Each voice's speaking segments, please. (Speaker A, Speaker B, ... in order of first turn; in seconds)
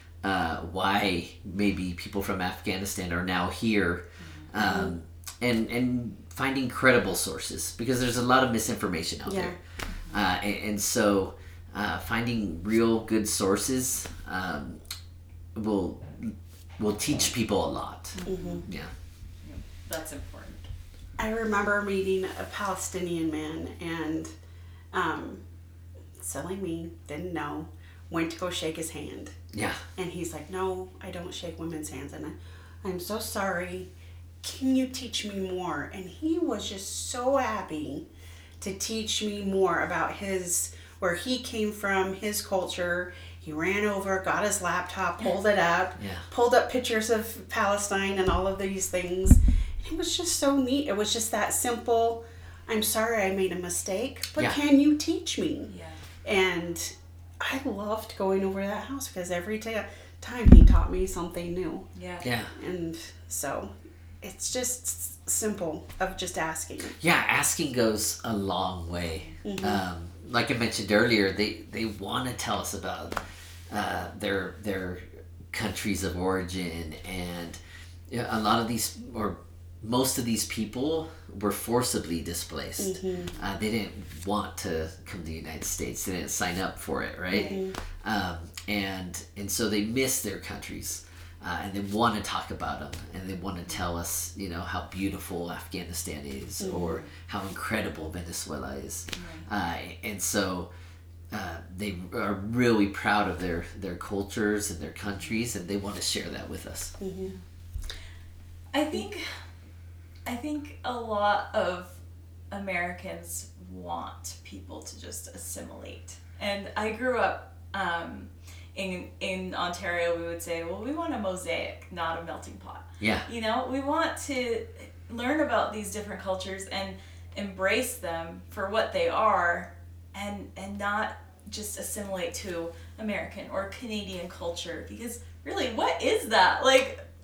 Speaker A: 0.2-9.6, 10.1-14.8, 15.6-18.9, 29.5-29.8, 46.0-46.3, 62.2-62.5, 67.0-100.7, 101.3-106.9, 123.0-123.3
Speaker B: 4.2-4.5, 18.1-18.7, 19.4-20.7, 55.7-56.0, 62.0-62.2, 87.3-87.6, 99.1-99.5, 108.7-109.3, 110.3-112.0, 112.5-137.0
Speaker C: 4.6-5.0, 9.2-9.6, 18.3-18.6, 21.2-24.3, 24.9-25.4, 26.2-29.4, 30.0-33.9, 34.4-38.1, 38.6-55.7, 56.2-61.9, 62.5-67.0, 69.4-69.8, 82.8-83.3, 87.3-87.8, 96.6-97.0, 107.0-107.3